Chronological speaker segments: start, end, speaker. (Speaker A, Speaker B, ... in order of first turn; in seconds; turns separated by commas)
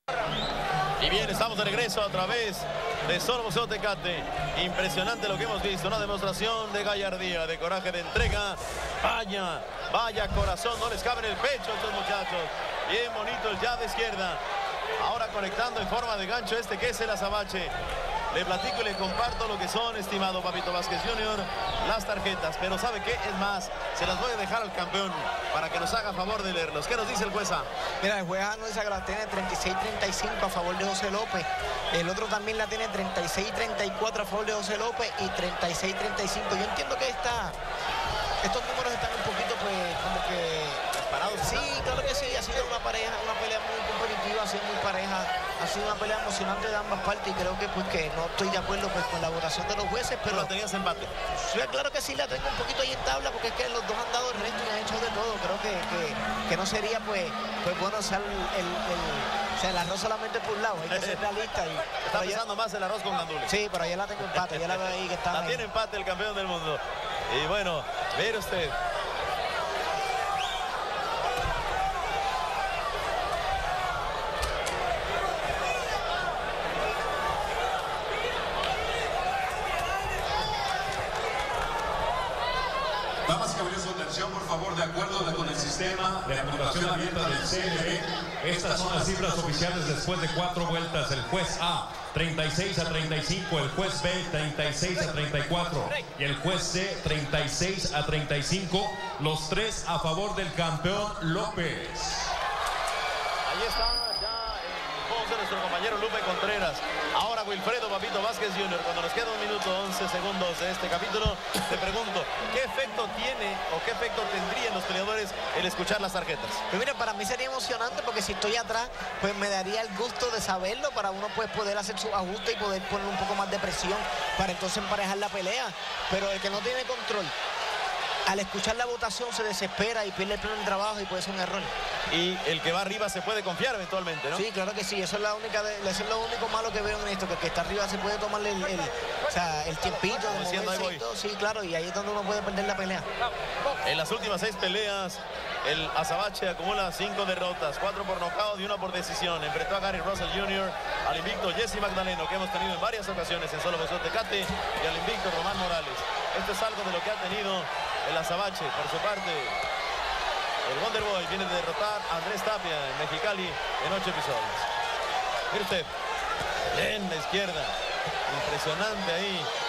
Speaker A: 1.0-14.4, Speaker A: 15.0-17.7, Speaker A: 18.3-27.7, Speaker B: 28.0-37.5, Speaker B: 38.4-40.8, Speaker A: 40.9-41.8, Speaker B: 41.4-50.5, Speaker A: 50.3-51.1, Speaker B: 51.3-62.4, Speaker A: 60.9-61.2, Speaker A: 62.0-63.5, Speaker B: 63.5-65.6, Speaker A: 64.2-68.8, Speaker C: 83.2-102.3, Speaker A: 103.5-116.6, Speaker B: 116.7-127.3, Speaker B: 128.2-131.7, Speaker A: 132.1-134.4, Speaker B: 134.3-143.1, Speaker A: 140.3-141.0, Speaker A: 143.8-159.6, Speaker A: 160.6-164.7, Speaker A: 165.5-165.9, Speaker A: 166.7-167.7, Speaker A: 168.3-169.5